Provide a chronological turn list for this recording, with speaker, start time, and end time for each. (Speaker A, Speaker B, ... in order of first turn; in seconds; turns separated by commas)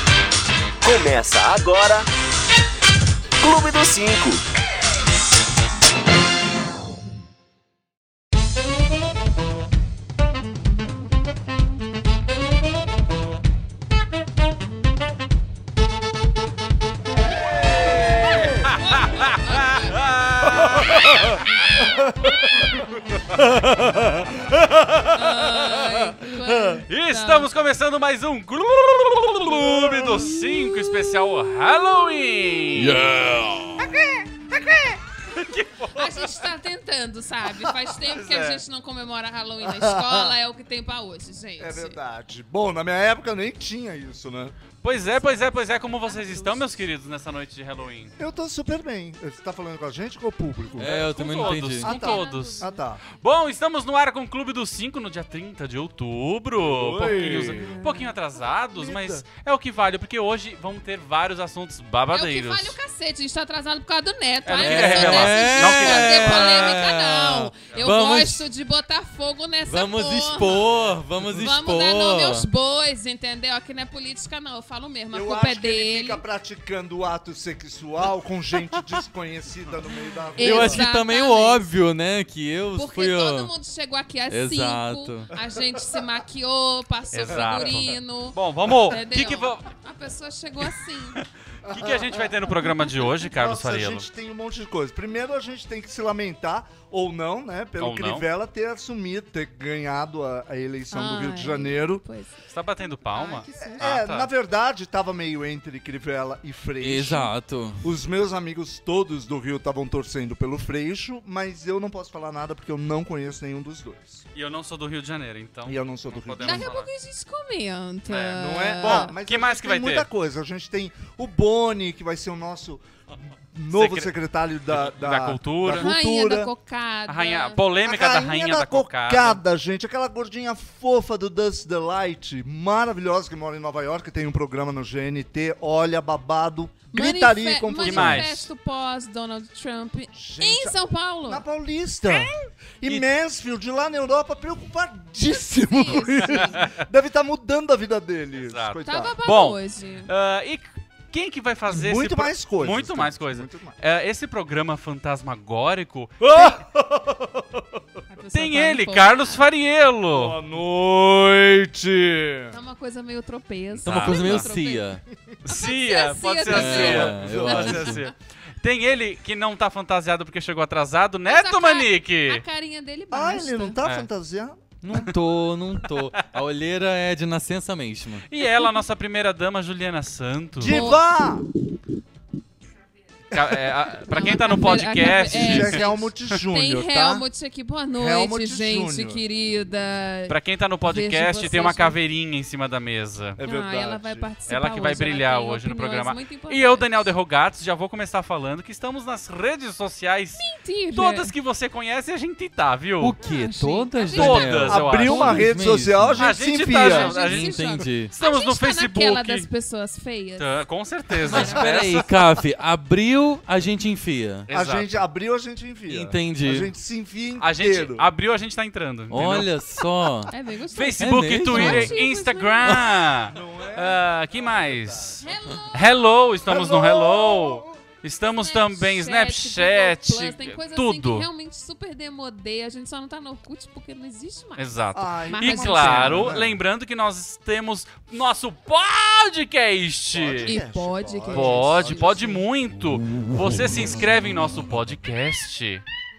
Speaker A: 0.8-2.1, Speaker A: 3.4-4.4, Speaker B: 18.2-21.4, Speaker C: 18.8-19.9, Speaker D: 20.6-25.2, Speaker C: 25.0-27.5, Speaker D: 26.3-26.8, Speaker B: 26.9-33.3, Speaker D: 29.4-31.7, Speaker D: 32.7-35.0, Speaker B: 35.3-36.2, Speaker C: 35.9-42.0, Speaker D: 37.6-38.6, Speaker D: 39.6-40.4, Speaker D: 41.6-44.5, Speaker B: 44.8-48.1, Speaker C: 45.2-45.4, Speaker C: 46.0-46.9, Speaker D: 48.2-53.0, Speaker B: 50.8-62.8, Speaker E: 50.8-51.9, Speaker C: 51.4-52.8, Speaker D: 56.6-57.8, Speaker C: 57.2-58.1, Speaker D: 58.7-59.2, Speaker C: 62.1-76.2, Speaker B: 64.4-66.5, Speaker E: 64.6-68.4, Speaker E: 69.7-72.5, Speaker D: 75.1-80.8, Speaker C: 80.4-81.7, Speaker E: 80.4-83.5, Speaker C: 82.7-91.2, Speaker E: 84.3-85.3, Speaker D: 85.5-86.0, Speaker B: 87.1-89.7, Speaker B: 91.1-94.1, Speaker D: 91.6-102.0, Speaker B: 97.8-98.2, Speaker C: 100.9-103.8, Speaker B: 102.5-104.3, Speaker D: 103.5-107.3, Speaker E: 106.8-107.8, Speaker C: 107.0-107.3, Speaker D: 107.8-114.2, Speaker B: 114.3-116.9, Speaker D: 115.7-116.7, Speaker C: 116.4-119.1, Speaker B: 118.1-120.1, Speaker D: 118.4-122.8, Speaker D: 123.5-126.5, Speaker B: 123.7-124.1, Speaker B: 124.7-125.9, Speaker C: 125.8-127.6, Speaker B: 127.1-129.4, Speaker D: 127.8-138.4, Speaker C: 136.9-141.4, Speaker B: 137.8-138.5, Speaker D: 140.1-149.1, Speaker B: 142.1-143.0, Speaker C: 145.3-146.7, Speaker B: 148.4-156.3, Speaker C: 148.8-150.1, Speaker D: 151.7-153.7, Speaker D: 156.2-157.8, Speaker C: 158.1-159.4, Speaker B: 158.3-160.4, Speaker D: 160.1-162.6, Speaker C: 162.5-164.9, Speaker B: 163.8-164.5, Speaker E: 163.8-165.0, Speaker B: 165.4-172.4, Speaker C: 165.4-167.2, Speaker E: 166.5-168.0, Speaker D: 166.6-168.0, Speaker C: 171.2-173.8, Speaker D: 173.1-174.6, Speaker B: 173.8-174.1, Speaker E: 174.8-178.2, Speaker B: 178.3-180.8, Speaker D: 180.6-181.5, Speaker C: 180.7-181.0, Speaker B: 183.3-185.9, Speaker D: 183.3-183.7, Speaker C: 184.1-192.0, Speaker D: 185.3-187.2, Speaker D: 187.9-189.2, Speaker B: 190.3-193.4, Speaker D: 193.4-194.3, Speaker C: 193.4-197.1, Speaker B: 194.5-203.1, Speaker C: 200.3-201.3, Speaker E: 203.0-206.3, Speaker C: 203.2-204.7, Speaker B: 204.1-205.4, Speaker D: 204.6-207.2, Speaker B: 206.2-209.5, Speaker C: 206.7-210.6, Speaker E: 207.3-208.1, Speaker B: 210.4-212.1, Speaker C: 211.2-211.6, Speaker E: 211.3-214.5, Speaker B: 214.5-215.0, Speaker D: 214.5-218.1, Speaker E: 215.9-216.7, Speaker B: 217.4-219.5, Speaker E: 219.1-220.3, Speaker C: 220.3-223.1, Speaker B: 220.7-231.3, Speaker E: 221.0-221.9, Speaker D: 223.3-225.2, Speaker C: 225.2-226.3, Speaker D: 226.4-227.8, Speaker C: 228.3-236.3, Speaker B: 234.6-240.6, Speaker D: 234.9-236.6, Speaker D: 240.1-242.3, Speaker C: 240.4-242.4, Speaker B: 241.3-245.8